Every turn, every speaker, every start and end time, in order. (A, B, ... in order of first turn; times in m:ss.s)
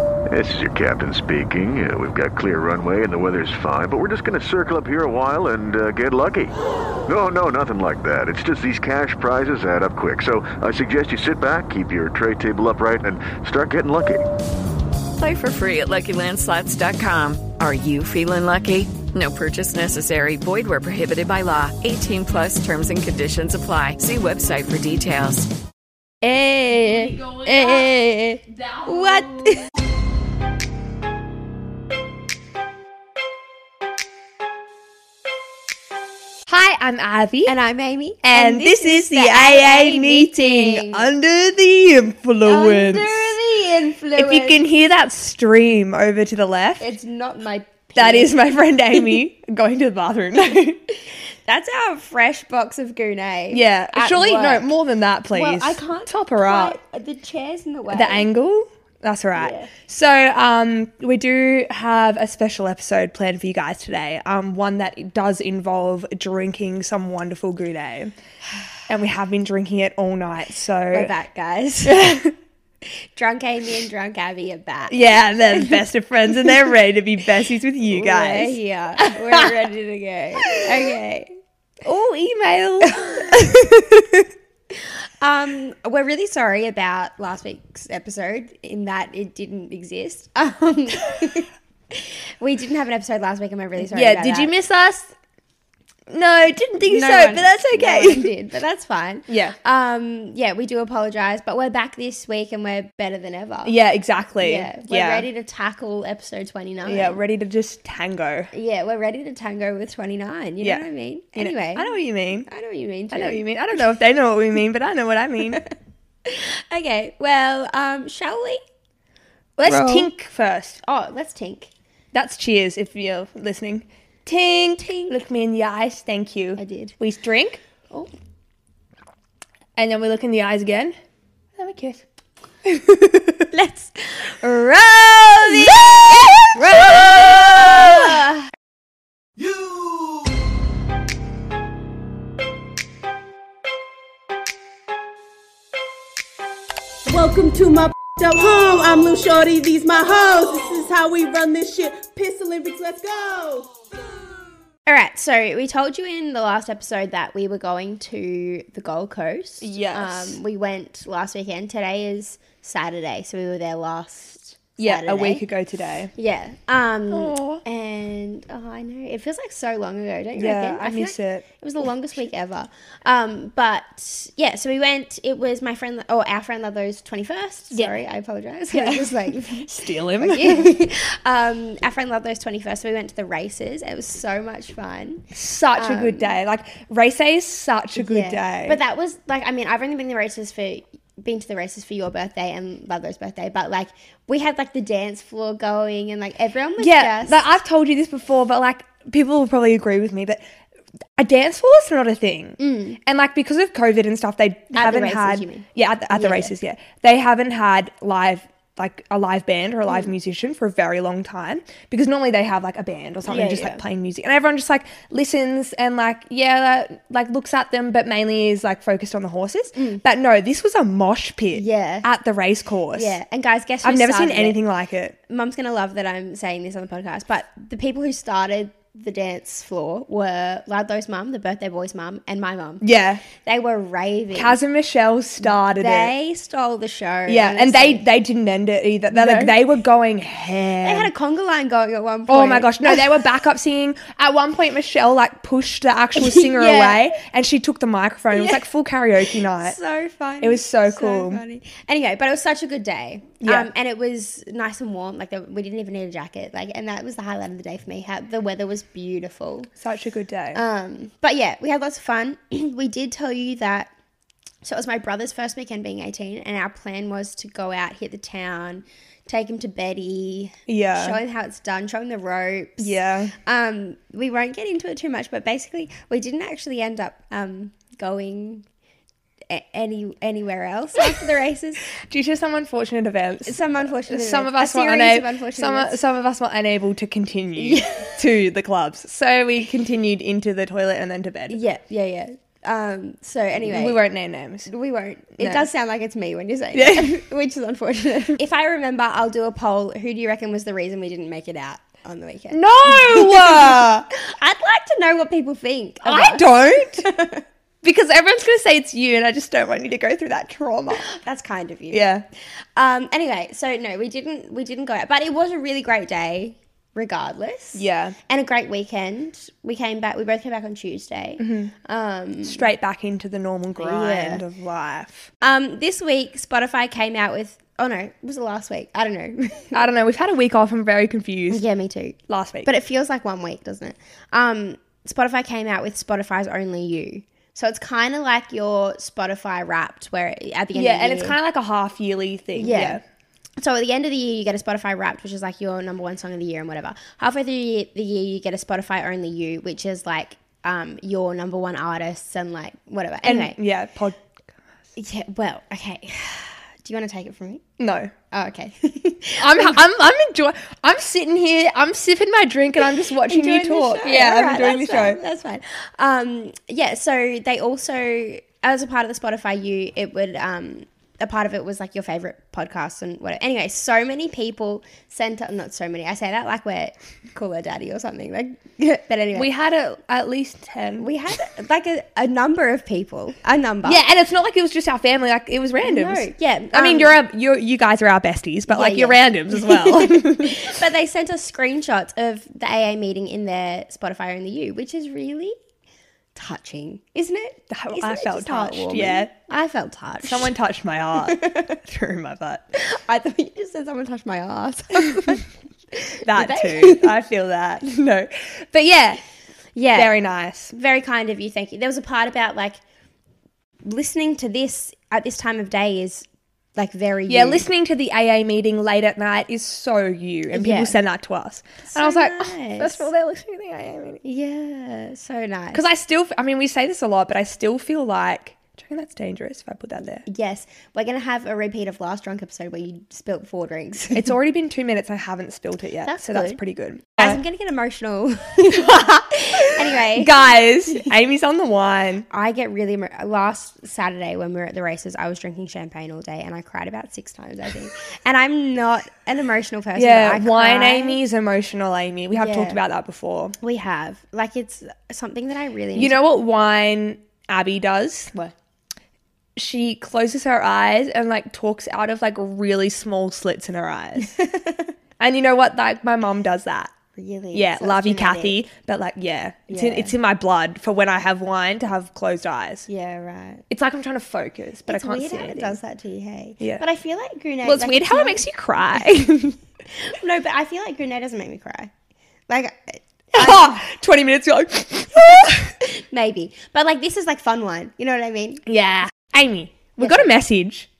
0:00.3-0:06.5 A
0:07.0-0:14.2 A
0:15.2-0:25.5 B
0:26.2-0:29.6 C
0:36.5-0:37.6 D
0:37.4-0:41.1 C
0:38.2-0:43.3 D
0:42.4-0:44.6 C
0:44.1-0:46.8 D
0:46.8-0:48.4 C
0:47.9-0:50.8 D
0:51.4-0:54.7 C
0:53.5-0:56.8 D
0:55.3-0:58.3 C
0:57.9-1:08.1 D
0:59.4-0:59.7 C
1:08.9-1:11.1 D
1:10.9-1:12.2 C
1:11.8-1:12.3 D
1:12.8-1:15.8 C
1:14.9-1:19.6 D
1:17.9-1:21.3 C
1:20.4-1:20.9 D
1:21.8-1:24.2 D
1:22.8-1:23.4 C
1:25.2-1:34.5 C
1:33.8-1:35.1 D
1:36.1-1:38.3 D
1:36.8-1:43.7 C
1:39.3-1:39.6 D
1:43.6-1:45.3 D
1:44.4-1:47.2 C
1:46.8-1:48.5 D
1:48.5-1:51.9 C
1:50.6-1:52.5 D
1:52.5-1:53.5 C
1:53.1-1:55.6 D
1:56.2-1:58.6 C
1:59.6-2:00.8 D
1:59.6-2:00.1 C
2:00.8-2:01.7 C
2:02.1-2:07.6 D
2:04.8-2:05.1 C
2:06.6-2:06.9 C
2:09.8-2:10.9 D
2:11.6-2:12.0 D
2:12.7-2:13.2 D
2:13.5-2:18.5 C
2:15.4-2:18.1 D
2:27.1-2:33.7 E
2:34.8-2:45.4 C
2:39.6-2:40.4 D
2:44.8-2:46.1 D
2:46.2-3:06.3 C
2:47.1-2:47.6 D
2:50.4-2:51.4 D
2:58.7-3:00.7 D
3:05.3-3:08.8 D
3:08.0-3:17.5 C
3:16.8-3:20.4 D
3:21.2-3:43.2 D
3:22.6-3:23.0 C
3:24.7-3:26.5 C
3:33.3-3:33.8 C
3:39.7-3:40.0 C
3:41.5-3:42.1 C
3:42.9-3:44.6 C
3:43.8-3:45.2 D
3:45.3-3:54.6 C
3:52.8-3:53.2 D
3:54.3-3:56.1 D
3:55.4-3:58.0 C
3:57.3-4:01.1 D
3:59.1-3:59.6 C
4:00.8-4:03.1 C
4:02.3-4:09.8 D
4:06.2-4:07.2 C
4:08.3-4:08.6 C
4:09.2-4:19.7 C
4:10.4-4:11.4 D
4:13.4-4:13.7 D
4:19.8-4:20.6 D
4:20.5-4:23.9 C
4:24.6-4:38.6 C
4:30.7-4:31.2 D
4:32.8-4:33.3 D
4:39.5-4:41.9 C
4:41.9-4:51.6 D
4:43.4-4:46.0 C
4:47.6-4:48.2 C
4:51.5-4:54.0 C
4:53.6-4:54.7 D
4:54.7-5:07.4 C
4:55.4-4:55.7 D
4:56.7-4:57.2 D
5:02.5-5:04.0 D
5:06.0-5:07.1 D
5:07.8-5:11.1 D
5:11.0-5:12.1 C
5:11.9-5:12.2 D
5:12.8-5:22.7 C
5:17.7-5:18.1 D
5:21.4-5:21.7 D
5:22.4-5:25.3 D
5:23.8-5:24.4 C
5:25.4-5:29.8 C
5:29.7-5:31.6 D
5:31.5-5:41.4 C
5:32.3-5:32.7 D
5:40.7-5:43.0 D
5:42.6-5:43.0 C
5:43.6-5:53.6 C
5:53.2-5:54.2 D
5:55.0-5:57.6 C
5:57.8-5:58.1 D
5:58.3-5:59.8 C
5:59.4-6:05.2 D
6:03.1-6:19.5 C
6:19.3-6:21.1 D
6:21.0-6:24.0 C
6:23.8-6:30.8 D
6:25.8-6:27.2 C
6:28.7-6:35.6 C
6:36.3-6:40.5 C
6:37.7-6:39.3 D
6:40.2-6:42.6 D
6:41.2-6:41.8 C
6:42.7-6:47.1 C
6:46.2-6:49.2 D
6:49.7-6:50.1 C
6:49.9-6:50.7 D
6:50.7-6:52.8 C
6:53.8-6:57.7 C
6:57.3-7:04.2 D
7:00.5-7:01.0 C
7:01.8-7:03.1 C
7:04.2-7:05.8 C
7:05.7-7:10.2 D
7:10.2-7:14.3 C
7:14.1-7:17.4 D
7:16.0-7:16.6 C
7:17.1-7:21.1 C
7:18.7-7:19.0 D
7:19.9-7:22.3 D
7:22.3-7:31.2 C
7:29.9-7:33.6 D
7:32.3-7:32.8 C
7:33.6-7:36.2 C
7:35.9-7:38.3 D
7:39.6-7:44.4 D
7:44.2-7:44.9 C
7:45.2-7:46.9 D
7:47.2-7:48.6 C
7:47.5-7:52.9 D
7:49.7-7:50.2 C
7:52.9-7:53.6 C
7:53.7-7:55.8 D
7:54.9-7:58.4 C
7:57.6-7:59.6 D
7:59.9-8:01.9 C
8:02.5-8:03.8 C
8:03.3-8:05.7 D
8:05.5-8:08.6 C
8:08.6-8:10.9 D
8:10.0-8:10.3 C